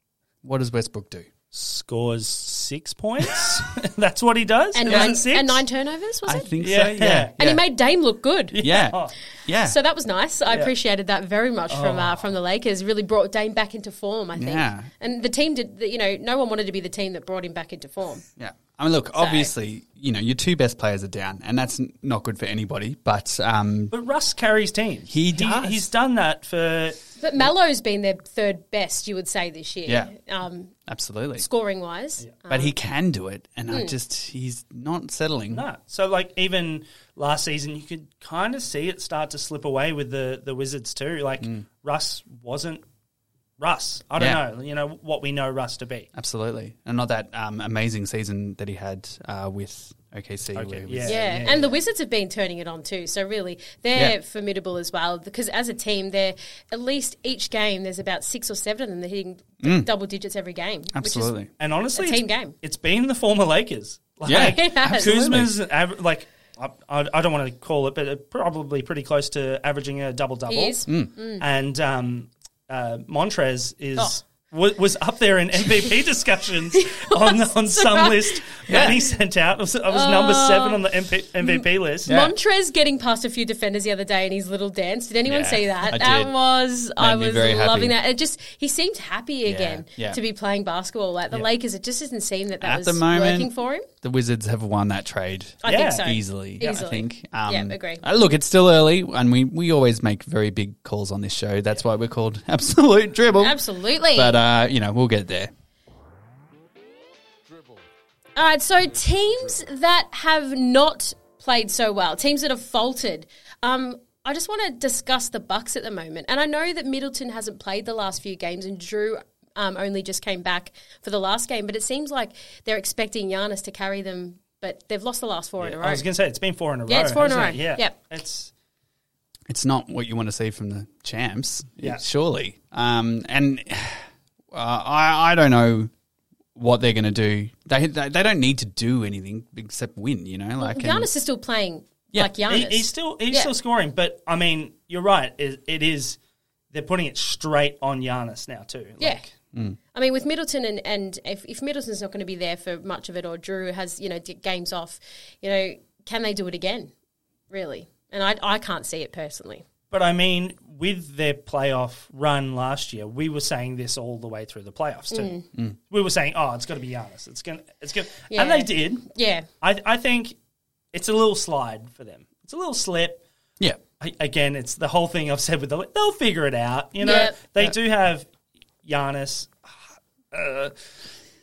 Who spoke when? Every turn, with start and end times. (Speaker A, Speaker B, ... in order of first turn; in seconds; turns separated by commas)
Speaker A: 0.4-1.3, Speaker B: 1.5-5.7, Speaker C: 4.7-6.6, Speaker A: 4.9-5.2, Speaker A: 6.3-7.6, Speaker B: 6.6-7.3, Speaker C: 7.4-8.6, Speaker B: 8.5-9.1, Speaker A: 8.6-9.8, Speaker C: 9.6-18.2, Speaker B: 11.7-12.3, Speaker A: 14.4-14.9, Speaker A: 18.4-23.9, Speaker C: 19.2-19.5, Speaker B: 23.9-27.0, Speaker A: 25.1-25.9, Speaker C: 27.2-30.7, Speaker A: 29.9-30.1, Speaker A: 30.9-31.5, Speaker C: 31.4-32.7, Speaker A: 32.5-35.6, Speaker C: 33.7-34.0, Speaker B: 35.5-42.8, Speaker B: 43.6-46.1, Speaker A: 46.1-51.2, Speaker B: 50.5-51.7, Speaker C: 51.0-61.4, Speaker A: 59.6-59.9, Speaker A: 60.9-61.5, Speaker B: 61.6-70.8, Speaker C: 62.0-62.5, Speaker A: 64.3-65.6, Speaker C: 64.3-65.2, Speaker C: 70.5-71.4, Speaker B: 71.4-82.1, Speaker C: 76.7-78.9, Speaker A: 78.7-79.0, Speaker C: 79.9-80.8, Speaker C: 81.4-93.9, Speaker A: 82.1-82.3, Speaker A: 85.3-86.3, Speaker A: 87.0-88.0, Speaker A: 89.5-90.2, Speaker A: 92.6-103.6, Speaker C: 95.6-98.0, Speaker B: 95.7-96.1, Speaker C: 103.4-104.3, Speaker A: 104.1-105.5, Speaker C: 108.4-126.0, Speaker B: 125.6-128.5, Speaker C: 126.9-128.0, Speaker A: 129.5-135.9, Speaker A: 136.6-141.1, Speaker C: 140.6-143.5, Speaker B: 142.5-146.2, Speaker B: 146.7-149.3, Speaker C: 149.9-156.9, Speaker C: 157.5-159.7, Speaker B: 159.9-169.1, Speaker C: 165.1-165.4, Speaker C: 168.3-169.5, Speaker B: 169.6-170.4, Speaker B: 170.9-173.2, Speaker B: 174.0-178.3, Speaker C: 177.0-177.4, Speaker B: 178.8-179.7, Speaker B: 180.3-180.7